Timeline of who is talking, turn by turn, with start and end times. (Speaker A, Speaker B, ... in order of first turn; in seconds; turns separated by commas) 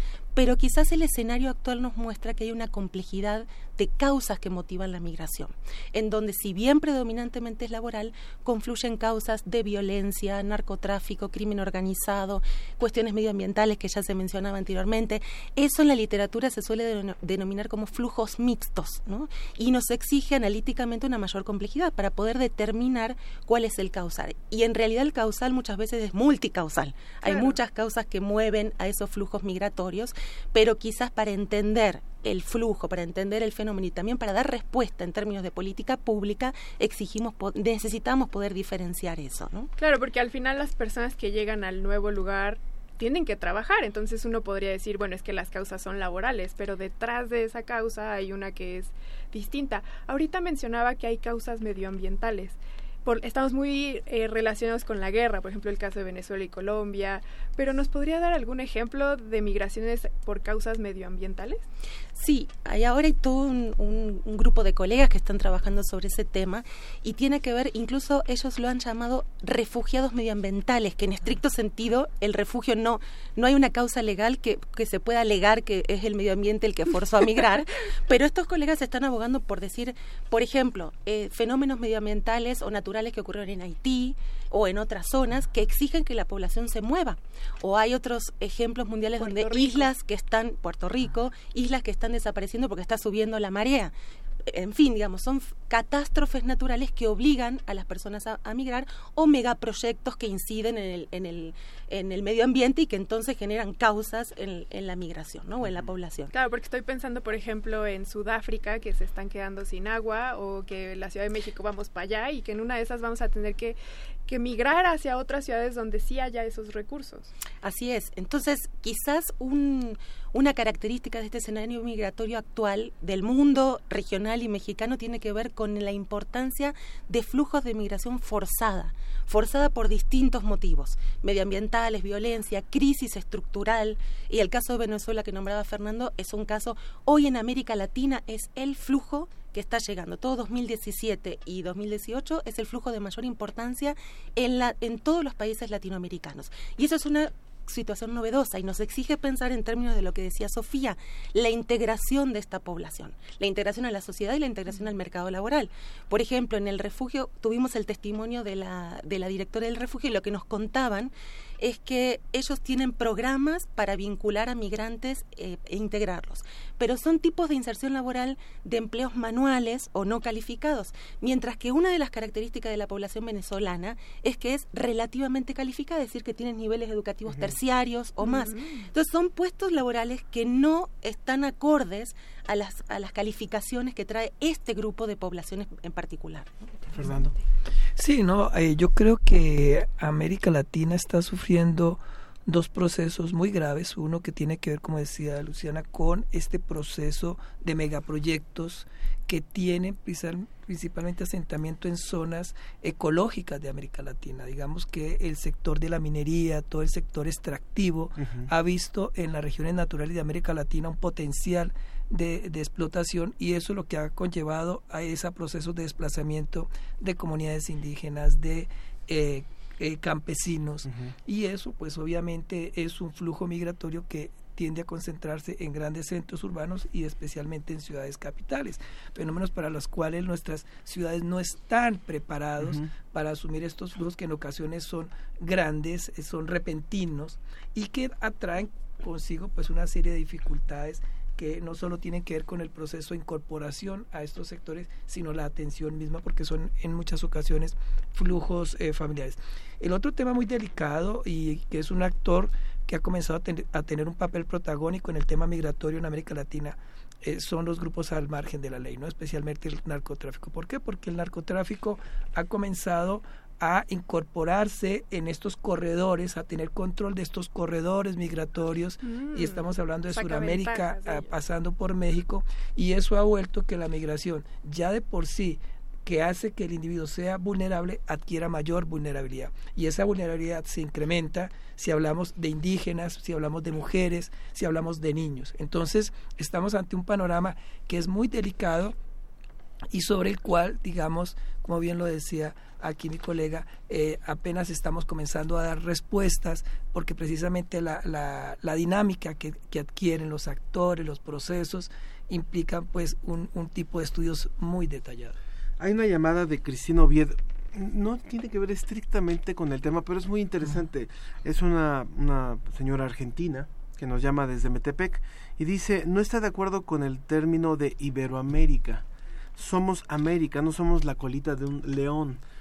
Speaker A: 0.3-39.7, Speaker B: 39.8-61.6, Speaker A: 62.1-93.9, Speaker B: 89.2-89.9, Speaker A: 94.5-106.3, Speaker C: 105.6-105.9, Speaker B: 106.3-117.3, Speaker A: 117.6-186.8, Speaker C: 177.3-177.5, Speaker B: 178.2-178.8, Speaker C: 186.9-187.3, Speaker D: 188.0-288.9, Speaker C: 208.2-208.5, Speaker B: 269.0-271.3, Speaker D: 289.9-305.4, Speaker C: 305.8-319.0, Speaker C: 319.6-322.4